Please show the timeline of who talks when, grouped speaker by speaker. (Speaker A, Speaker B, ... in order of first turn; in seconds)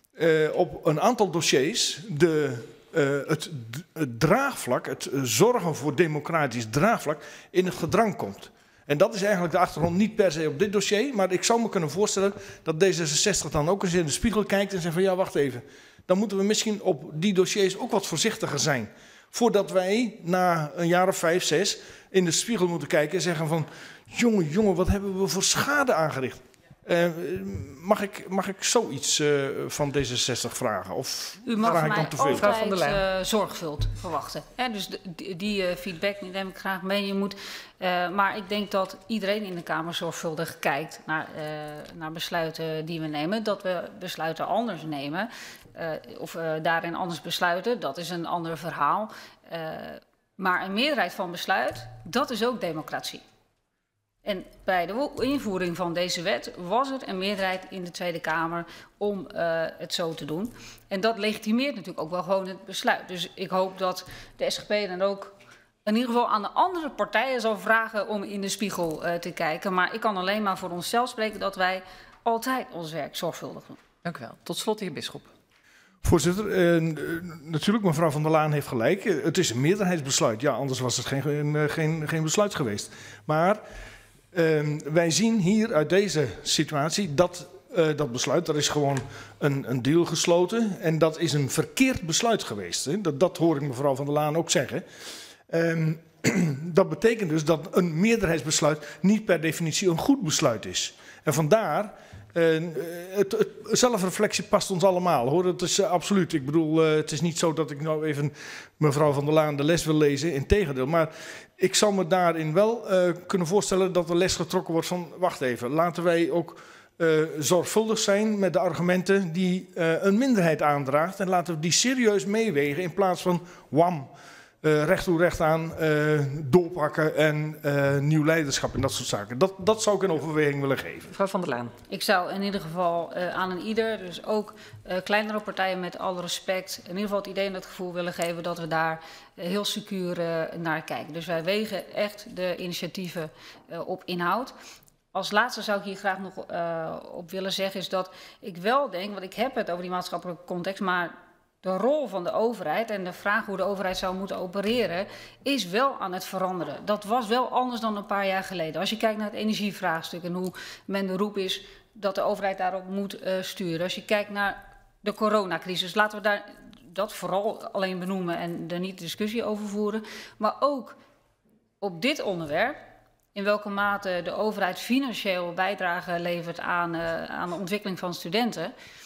Speaker A: 0.1-32.5, 76.0-83.6, 84.3-94.8, 95.5-124.1, 124.6-131.1
Speaker B: 31.4-53.2, 54.2-65.3, 65.8-73.8, 131.9-144.5, 145.1-171.0, 171.8-172.8, 173.3-178.7
Speaker C: 31.7-33.0, 74.0-75.3, 131.1-131.7